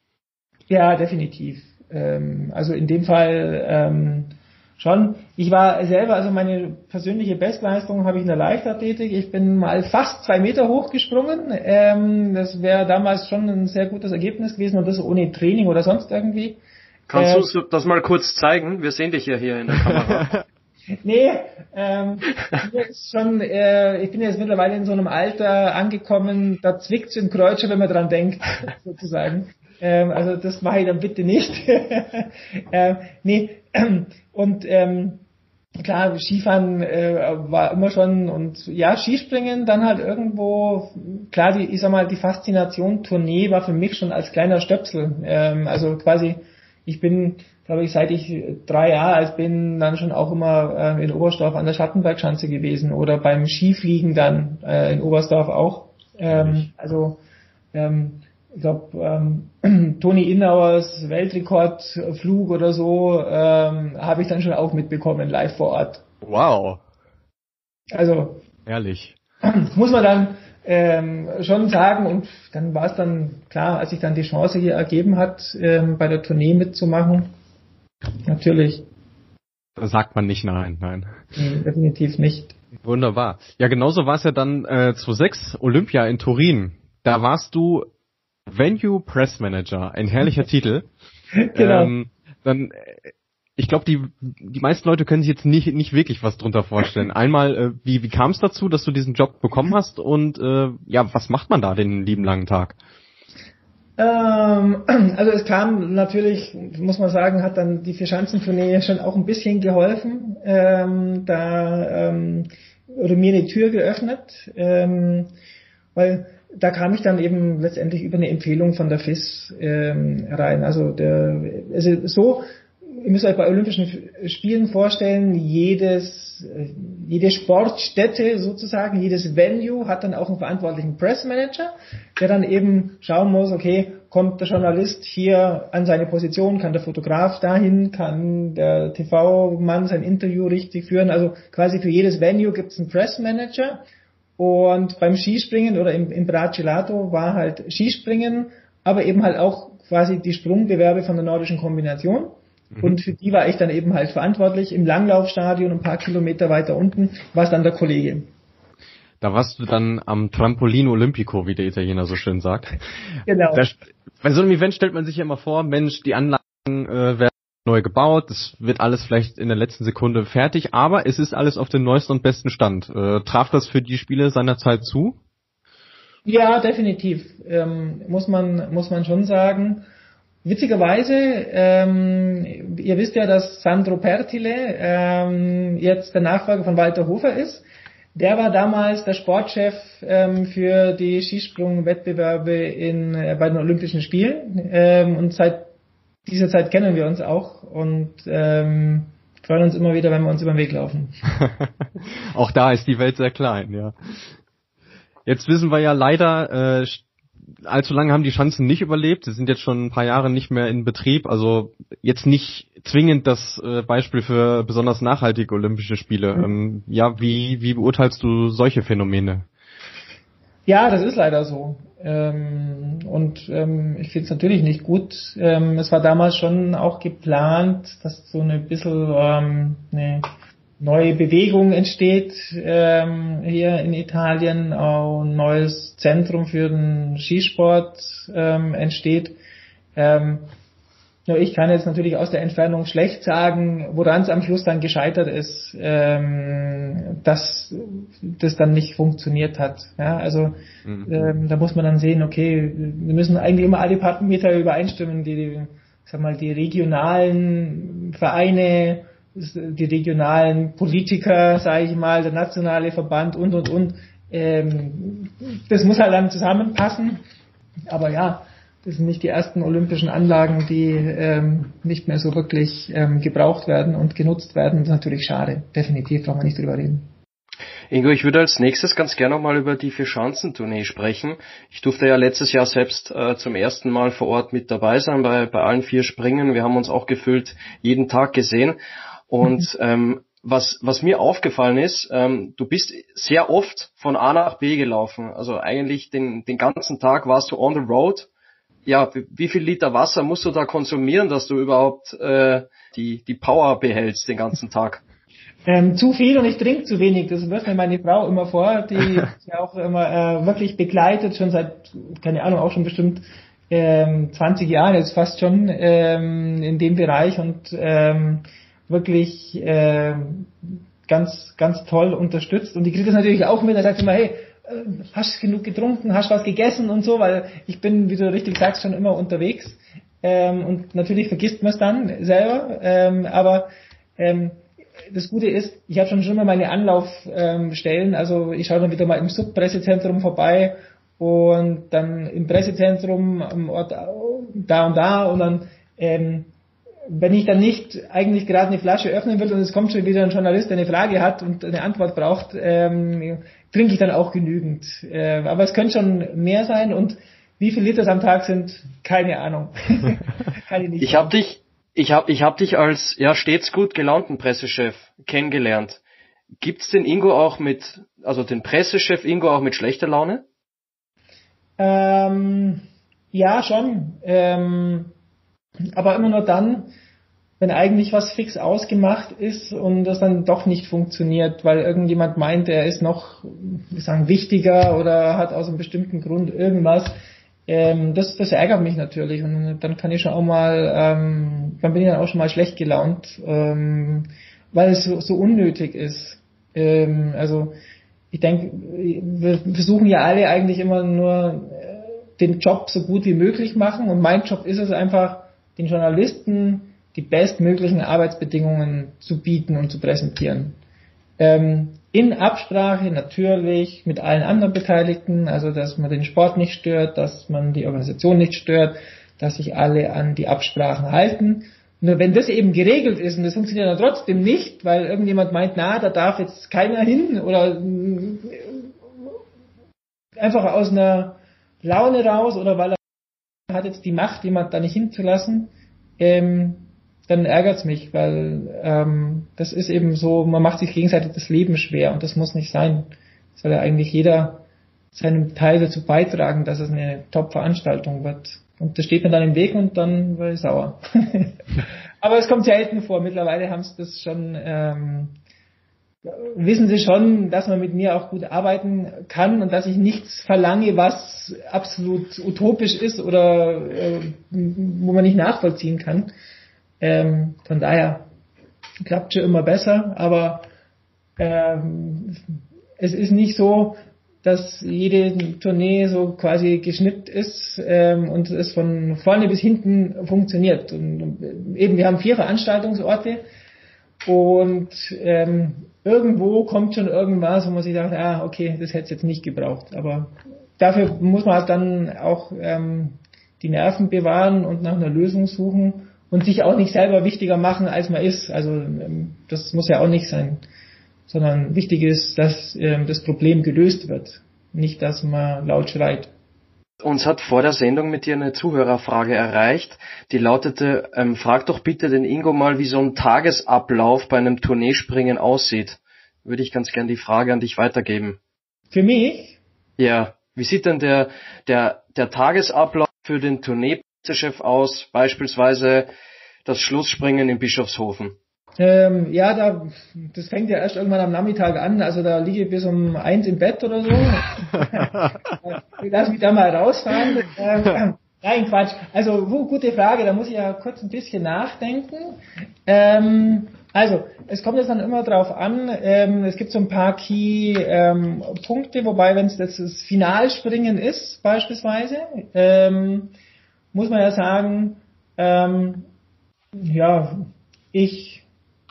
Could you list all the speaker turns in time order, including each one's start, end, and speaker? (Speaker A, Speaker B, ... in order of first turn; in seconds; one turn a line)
Speaker A: 0.7-16.6
Speaker B: 17.1-20.3
Speaker A: 17.1-17.5
Speaker C: 20.2-20.4
Speaker A: 21.0-35.2
Speaker A: 35.8-57.2
Speaker C: 56.3-56.7
Speaker A: 57.7-66.0
Speaker C: 66.2-66.8
Speaker A: 67.9-68.4
Speaker C: 68.7-69.2
Speaker A: 69.4-77.3
Speaker A: 78.3-78.9
Speaker C: 79.8-81.1
Speaker A: 81.3-82.5
Speaker C: 82.8-87.9
Speaker C: 88.5-90.9
Speaker A: 91.4-91.9
Speaker C: 91.5-102.8
Speaker A: 104.0-115.3
Speaker A: 116.0-143.8
Speaker A: 144.4-158.3
Speaker C: 159.2-162.8
Speaker A: 163.3-163.7
Speaker C: 163.5-175.2
Speaker A: 176.3-179.8
Speaker A: 180.4-195.7
Speaker A: 196.3-201.2
Speaker C: 201.4-201.7
Speaker C: 202.3-203.9
Speaker C: 205.3-207.1
Speaker C: 207.6-219.5
Speaker A: 220.7-230.3
Speaker A: 230.8-239.4
Speaker A: 240.0-240.5
Speaker A: 241.3-250.6
Speaker C: 250.8-251.1
Speaker A: 251.1-267.2
Speaker A: 267.9-277.1
Speaker B: 277.9-288.8
Speaker B: 289.3-298.3
Speaker B: 298.9-305.0
Speaker A: 305.7-346.5
Speaker A: 347.1-361.3
Speaker B: 361.0-366.0
Speaker B: 366.6-370.4
Speaker A: 371.8-375.1
Speaker A: 376.0-376.9
Speaker A: 377.6-387.2
Speaker A: 387.7-397.8
Speaker A: 398.3-410.8
Speaker A: 411.4-429.4
Speaker A: 430.4-433.0
Speaker A: 433.7-455.4
Speaker A: 456.3-466.3
Speaker A: 467.0-468.3
Speaker A: 469.1-470.7
Speaker A: 471.4-472.4
Speaker A: 473.0-483.4
Speaker A: 484.2-500.6
Speaker A: 501.3-506.3
Speaker B: 507.0-518.4
Speaker A: 518.9-519.6
Speaker B: 520.0-526.1
Speaker B: 526.6-528.4
Speaker A: 528.8-553.3
Speaker C: 534.9-535.3
Speaker A: 553.9-556.1
Speaker A: 556.8-558.5